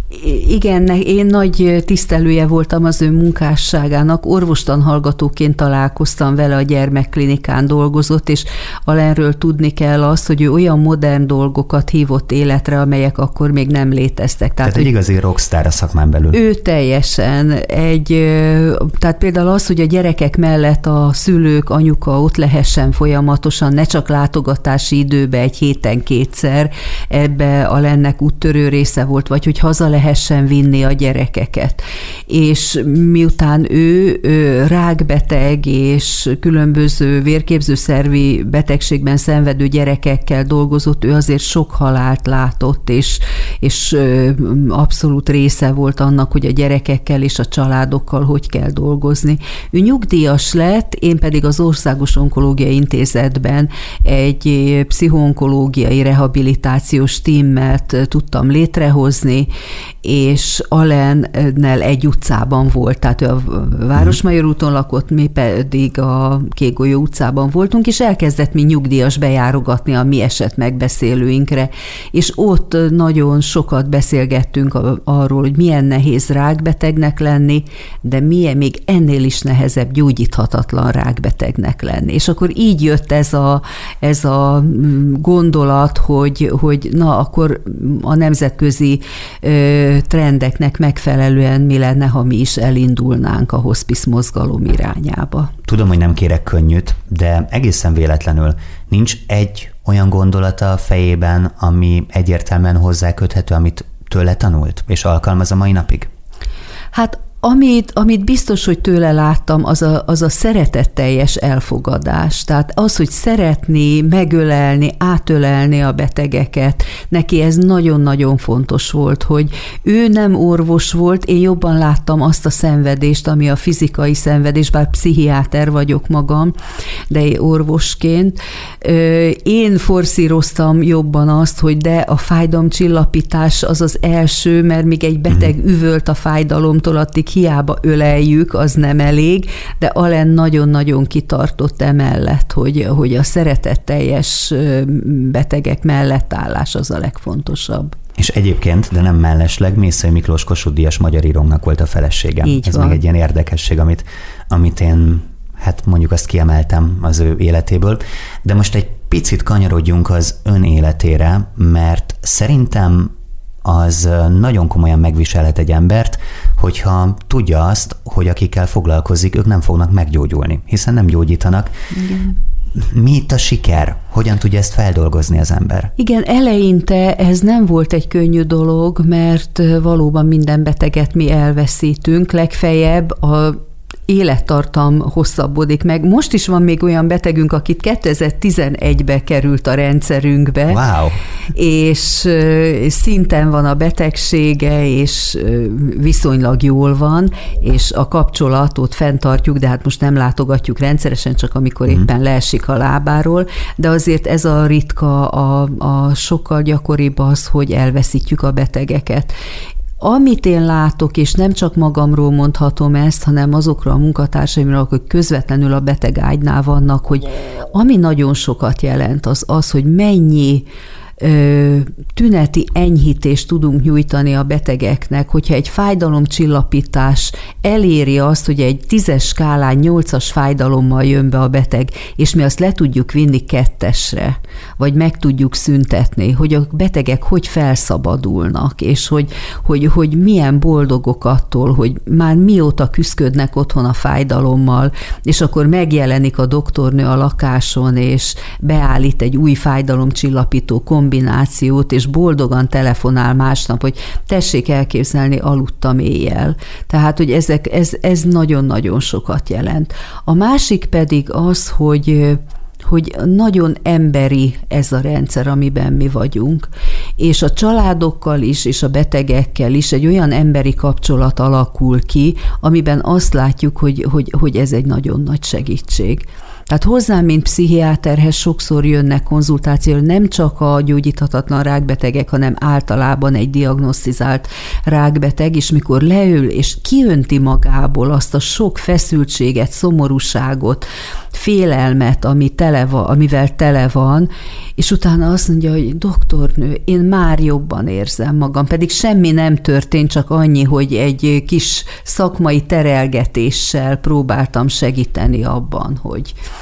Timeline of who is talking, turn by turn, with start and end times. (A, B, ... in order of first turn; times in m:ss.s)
0:00.1-0:14.9 A
0:14.6-0:16.4 B
0:16.3-0:59.5 A
1:00.0-1:35.5 A
1:35.6-1:46.1 B
1:46.9-2:06.5 A
2:07.1-2:28.0 A
2:28.2-2:43.1 B
2:32.4-2:33.0 A
2:43.6-2:51.7 B
2:51.9-2:52.3 A
2:52.7-2:55.9 B
2:56.0-3:10.8 A
3:10.7-3:11.2 B
3:11.5-3:29.3 A
3:30.0-3:40.6 A
3:41.2-4:26.7 A
4:27.2-5:06.4 A